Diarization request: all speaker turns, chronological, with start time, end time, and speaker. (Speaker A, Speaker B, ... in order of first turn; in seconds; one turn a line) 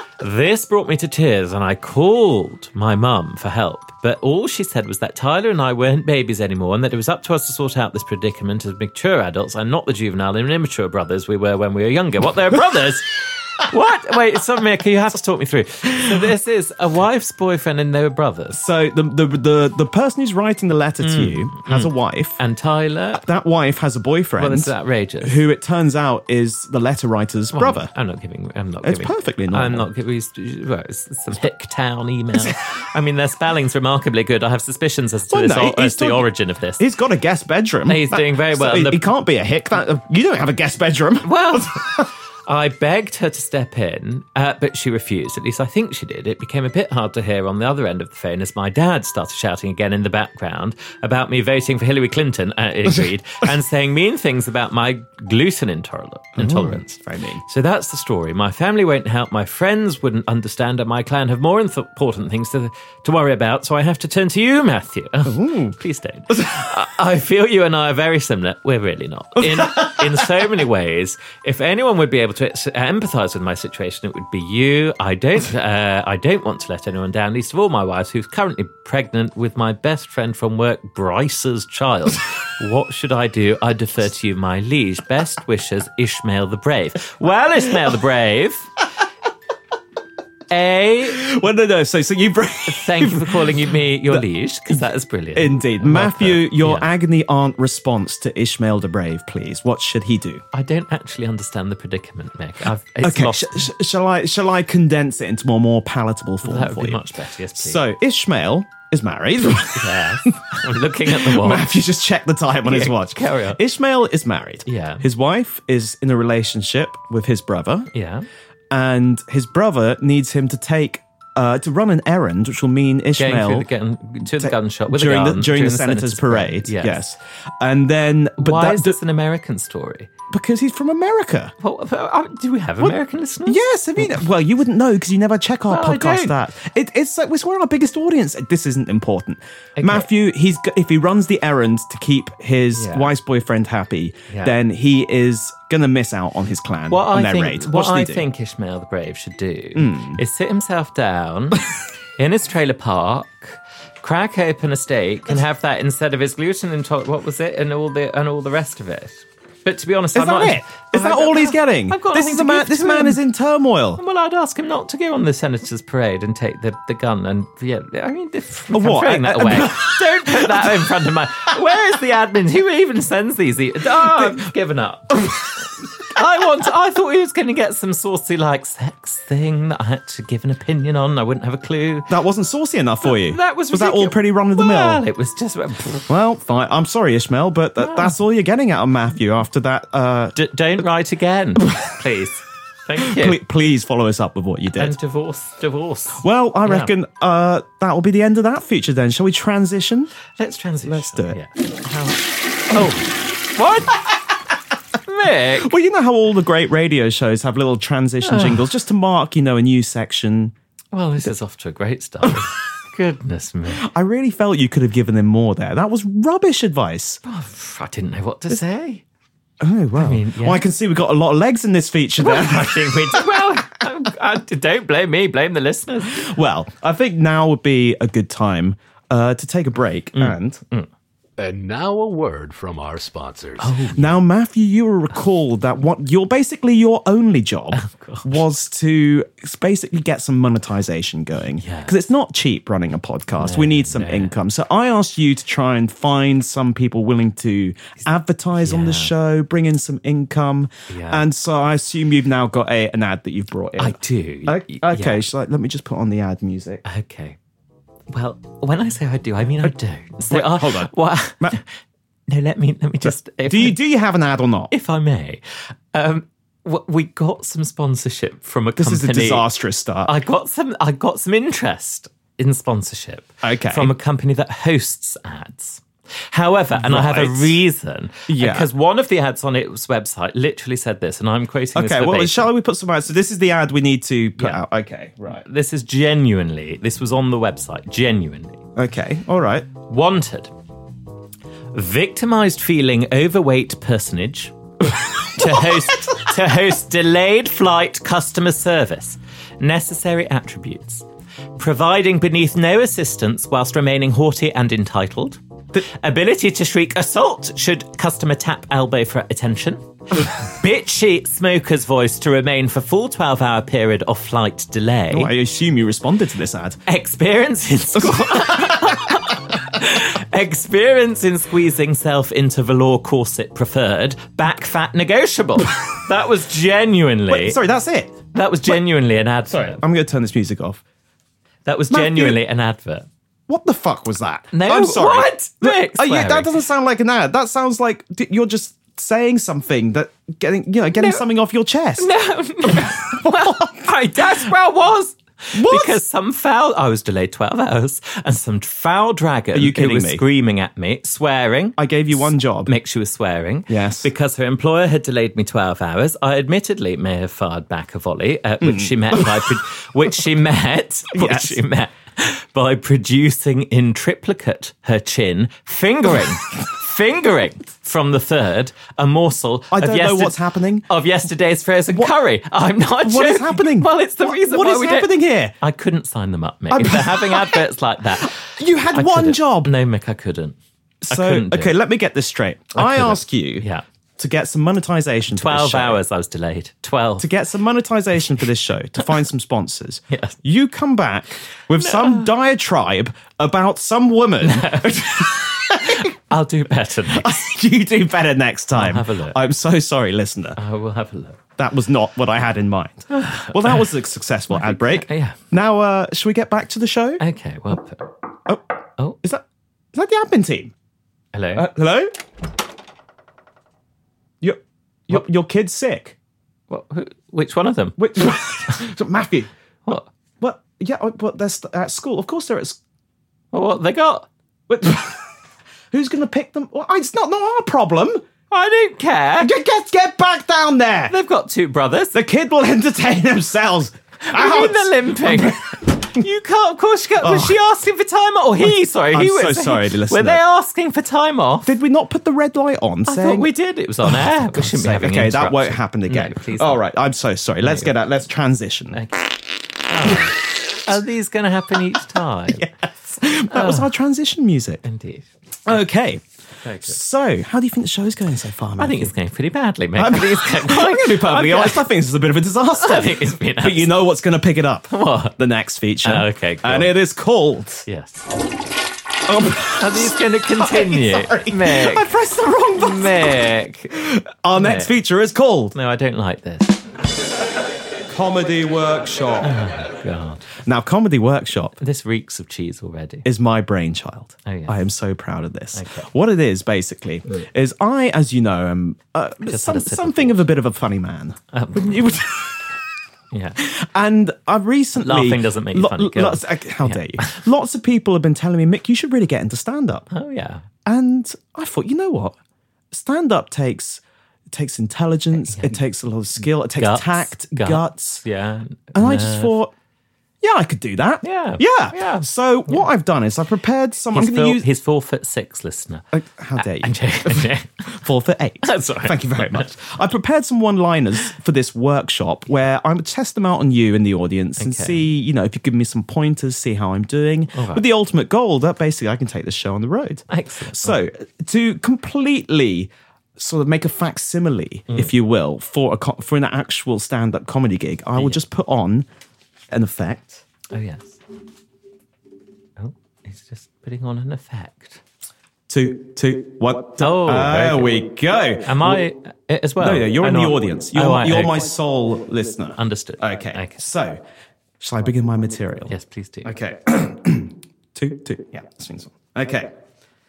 Speaker A: 0.2-18.6
Speaker B: 18.5-22.4
Speaker A: 21.0-23.2
Speaker B: 23.2-27.9
Speaker A: 24.4-25.4
Speaker A: 27.5-36.8
Speaker B: 28.8-29.9
Speaker B: 35.3-36.3
Speaker B: 36.8-42.1
Speaker A: 37.9-39.1
Speaker A: 41.2-88.7
Speaker B: 56.4-57.4
Speaker B: 65.2-65.8
Speaker B: 66.3-66.7
Speaker B: 69.4-70.1
Speaker A: 90.5-91.2
Speaker B: 91.1-93.5
Speaker A: 92.7-96.9
Speaker B: 94.1-94.8
Speaker B: 95.3-100.4
Speaker A: 100.5-103.7
Speaker B: 103.0-107.0
Speaker A: 106.4-107.8
Speaker B: 107.5-110.4
Speaker A: 109.7-111.7
Speaker B: 111.0-117.9
Speaker A: 112.6-113.6
Speaker A: 114.7-115.0
Speaker A: 117.9-118.2
Speaker B: 118.7-123.7
Speaker A: 123.2-127.0
Speaker B: 124.2-129.0
Speaker A: 128.4-130.1
Speaker B: 130.3-131.5
Speaker A: 131.6-134.2
Speaker B: 133.4-148.2
Speaker A: 135.7-136.3
Speaker A: 139.8-140.1
Speaker A: 142.7-143.1
Speaker A: 144.3-144.5
Speaker A: 146.9-163.2
Speaker B: 149.7-150.2
Speaker B: 160.1-164.0
Speaker A: 164.0-175.4
Speaker B: 168.7-170.9
Speaker B: 173.9-174.4
Speaker A: 176.0-182.1
Speaker B: 182.1-185.0
Speaker A: 183.0-186.1
Speaker B: 186.1-190.4
Speaker A: 187.8-188.1
Speaker A: 190.3-193.4
Speaker B: 193.0-194.9
Speaker A: 194.8-196.9
Speaker B: 196.2-200.1
Speaker A: 200.3-204.1
Speaker B: 200.8-201.4
Speaker A: 205.0-205.7
Speaker B: 205.6-210.5
Speaker A: 208.2-208.7
Speaker A: 210.9-213.8
Speaker B: 213.7-217.2
Speaker A: 217.2-219.0
Speaker B: 219.6-223.4
Speaker A: 219.9-220.6
Speaker A: 222.2-226.3
Speaker B: 226.1-230.6
Speaker A: 230.2-230.9
Speaker C: 231.4-233.8
Speaker A: 233.6-234.2
Speaker B: 233.9-256.8
Speaker A: 237.7-238.3
Speaker A: 241.6-241.9
Speaker A: 243.4-244.3
Speaker A: 248.6-249.1
Speaker A: 250.9-251.2
Speaker A: 253.8-255.2
Speaker A: 256.8-257.4
Speaker A: 258.1-261.8
Speaker B: 260.3-261.6
Speaker A: 262.3-263.8
Speaker B: 263.0-264.7
Speaker A: 264.7-265.4
Speaker A: 265.9-269.4
Speaker B: 268.8-270.1
Speaker A: 270.1-282.5
Speaker B: 273.4-273.9
Speaker B: 276.7-277.6
Speaker B: 278.3-278.7
Speaker B: 281.7-285.4
Speaker A: 285.3-288.6
Speaker B: 288.8-289.7
Speaker A: 289.8-290.5
Speaker A: 291.7-301.0
Speaker B: 294.9-296.2
Speaker A: 301.6-315.3
Speaker B: 315.1-316.8
Speaker A: 316.9-327.6
Speaker B: 317.9-319.2
Speaker B: 327.3-328.8
Speaker A: 328.3-329.8
Speaker B: 329.5-330.8
Speaker A: 331.6-333.1
Speaker B: 331.9-332.4
Speaker B: 333.5-342.1
Speaker A: 334.5-336.6
Speaker A: 341.0-341.2
Speaker A: 342.0-380.6
Speaker B: 342.6-343.9
Speaker B: 345.5-346.0
Speaker B: 349.5-350.2
Speaker B: 351.8-352.7
Speaker B: 353.7-354.1
Speaker B: 358.6-359.5
Speaker B: 361.1-361.6
Speaker B: 369.7-370.9
Speaker B: 373.0-375.5
Speaker B: 376.7-377.6
Speaker B: 378.2-379.7
Speaker B: 381.0-383.7
Speaker A: 381.1-381.7
Speaker A: 382.7-383.8
Speaker B: 384.2-386.0
Speaker A: 385.3-387.3
Speaker B: 387.2-396.1
Speaker A: 390.1-390.4
Speaker A: 391.8-392.3
Speaker A: 394.4-397.3
Speaker B: 397.1-400.6
Speaker A: 398.7-399.4
Speaker A: 400.6-401.4
Speaker B: 401.6-407.2
Speaker A: 403.1-403.9
Speaker A: 404.5-405.4
Speaker A: 407.2-408.1
Speaker B: 409.2-410.7
Speaker A: 411.3-411.7
Speaker B: 411.5-412.1
Speaker B: 414.4-416.1
Speaker A: 416.7-418.0
Speaker B: 418.0-422.8
Speaker A: 423.5-424.3
Speaker B: 424.7-425.3
Speaker B: 425.9-428.2
Speaker A: 428.5-429.5
Speaker B: 429.4-431.1
Speaker A: 431.1-432.2
Speaker B: 432.1-435.9
Speaker A: 434.3-441.7
Speaker B: 437.2-437.6
Speaker B: 438.6-440.4
Speaker B: 441.6-443.5
Speaker A: 443.1-446.8
Speaker B: 444.0-449.0
Speaker A: 447.6-447.9
Speaker A: 448.9-452.7
Speaker B: 452.5-454.8
Speaker A: 453.5-453.9
Speaker A: 454.8-455.7
Speaker B: 455.6-456.2
Speaker A: 456.6-456.9
Speaker B: 456.8-459.1
Speaker A: 458.8-461.8
Speaker B: 460.0-467.9
Speaker A: 462.8-463.9
Speaker A: 464.9-465.4
Speaker A: 466.0-466.9
Speaker A: 467.9-468.3
Speaker B: 469.2-473.2
Speaker A: 469.8-472.1
Speaker A: 472.8-474.0
Speaker B: 473.9-475.7
Speaker A: 474.5-474.9
Speaker A: 475.7-476.8
Speaker B: 478.1-479.5
Speaker A: 479.4-480.5
Speaker B: 480.6-481.8
Speaker A: 481.8-483.3
Speaker B: 483.2-492.7
Speaker A: 484.4-484.8
Speaker A: 485.7-486.1
Speaker A: 489.4-490.5
Speaker A: 491.5-492.1
Speaker A: 493.3-493.6
Speaker B: 493.6-500.1
Speaker A: 495.0-497.4
Speaker A: 500.1-500.6
Speaker B: 500.9-502.4
Speaker B: 502.9-508.2
Speaker A: 505.4-505.8
Speaker A: 506.8-509.6
Speaker B: 508.9-509.7
Speaker B: 510.4-514.6
Speaker A: 511.2-512.9
Speaker A: 514.1-518.0
Speaker B: 516.1-539.0
Speaker A: 518.6-519.7
Speaker A: 524.6-525.0
Speaker A: 527.5-527.8
Speaker A: 530.3-531.0
Speaker B: 539.7-540.4
Speaker A: 540.7-541.2
Speaker A: 542.8-545.0
Speaker B: 545.7-549.0
Speaker A: 547.0-548.0
Speaker A: 548.6-551.6
Speaker B: 549.8-554.2
Speaker A: 552.8-553.8
Speaker B: 554.8-555.9
Speaker A: 555.9-556.5
Speaker B: 556.4-559.7